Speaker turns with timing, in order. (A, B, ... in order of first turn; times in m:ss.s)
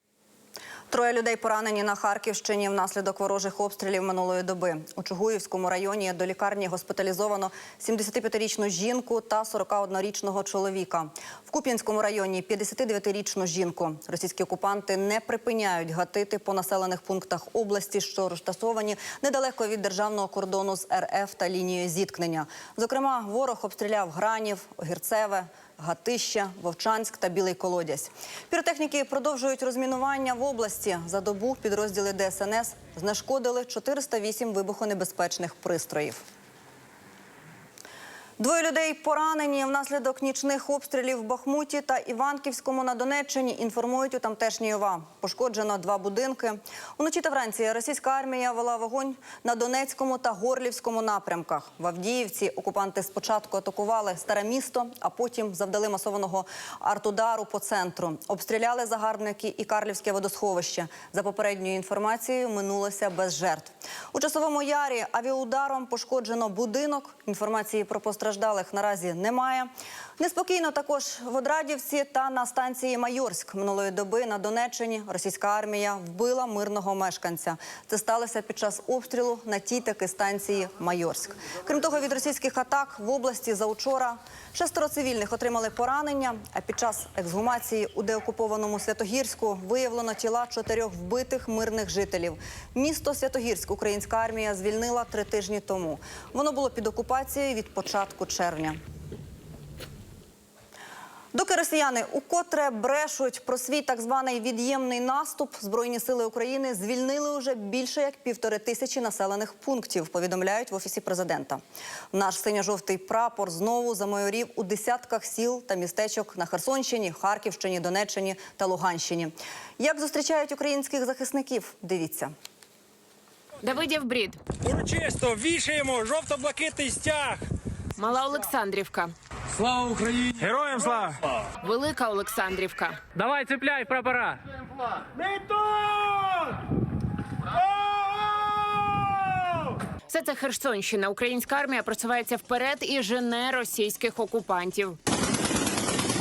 0:00.9-0:36.2 A
0:38.4-1:38.8 A
1:41.3-1:51.6 A
1:52.1-2:02.3 A
2:03.6-2:04.4 B
2:04.6-2:07.4 C
2:08.0-2:09.1 B
2:10.4-2:11.0 C
2:11.6-2:13.0 B
2:20.1-2:25.0 B